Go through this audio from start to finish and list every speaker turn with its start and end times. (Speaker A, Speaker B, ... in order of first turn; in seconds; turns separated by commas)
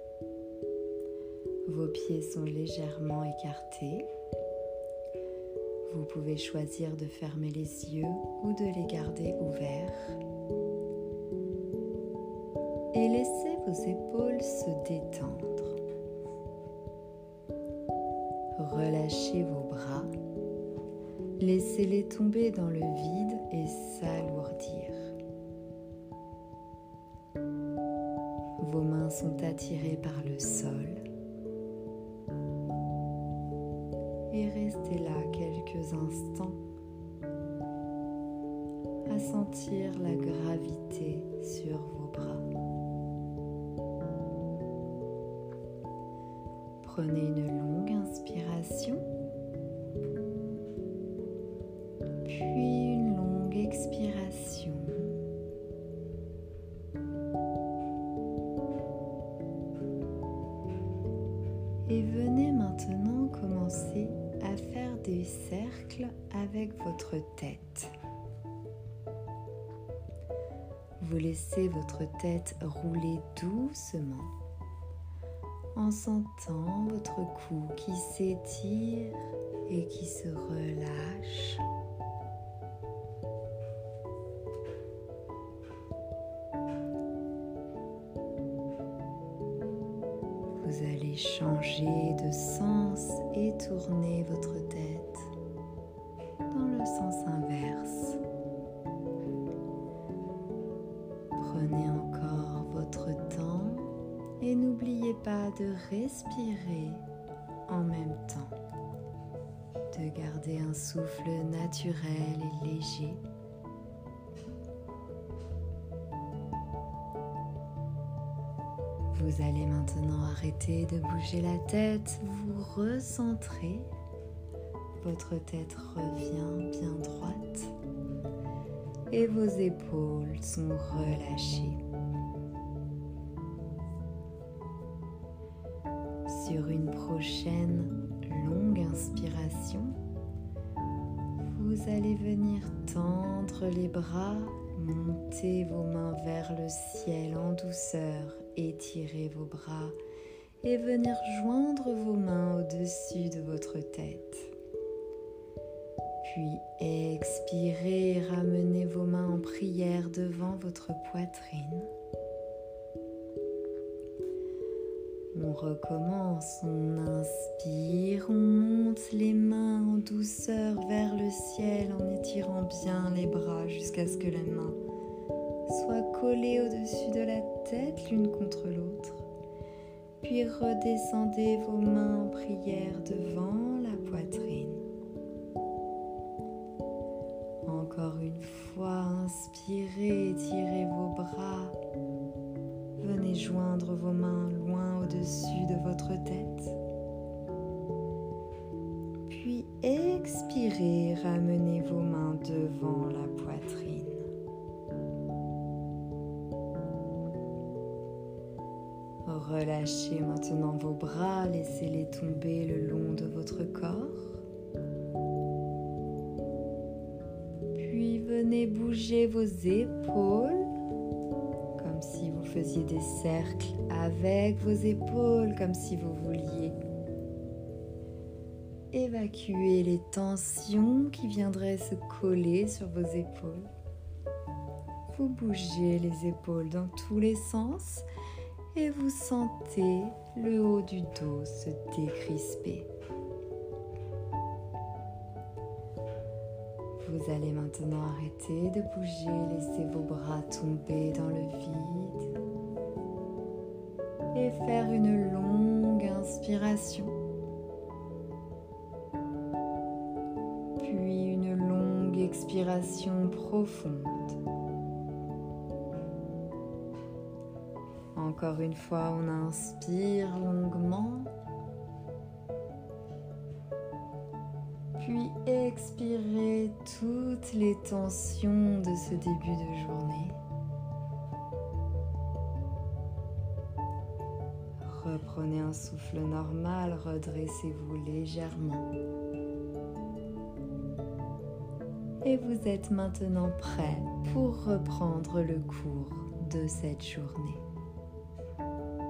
Speaker A: 1.6-4.1, Speaker A: 5.8-10.2, Speaker A: 12.9-15.8, Speaker A: 18.5-20.1, Speaker A: 21.4-25.1, Speaker A: 28.6-31.0, Speaker A: 34.3-36.6, Speaker A: 39.1-42.5, Speaker A: 46.8-49.1, Speaker A: 52.2-55.2, Speaker A: 61.9-67.9, Speaker A: 71.0-74.3, Speaker A: 75.7-81.6, Speaker A: 90.6-95.3, Speaker A: 96.5-98.2, Speaker A: 101.4-107.0, Speaker A: 107.7-108.5, Speaker A: 109.9-113.2, Speaker A: 119.1-123.9, Speaker A: 125.0-127.7, Speaker A: 129.1-131.8, Speaker A: 136.2-140.0, Speaker A: 141.4-150.0, Speaker A: 150.6-154.5, Speaker A: 156.2-161.9, Speaker A: 165.3-174.8, Speaker A: 175.7-179.3, Speaker A: 180.2-184.8, Speaker A: 187.6-191.8, Speaker A: 193.0-196.8, Speaker A: 199.2-204.3, Speaker A: 209.2-214.4, Speaker A: 217.7-220.7, Speaker A: 221.8-226.8, Speaker A: 228.9-233.7, Speaker A: 235.1-238.1, Speaker A: 238.7-242.9, Speaker A: 247.0-252.3, Speaker A: 254.3-257.2, Speaker A: 260.8-264.4, Speaker A: 268.1-271.3, Speaker A: 275.0-280.4, Speaker A: 284.8-288.9, Speaker A: 292.2-297.6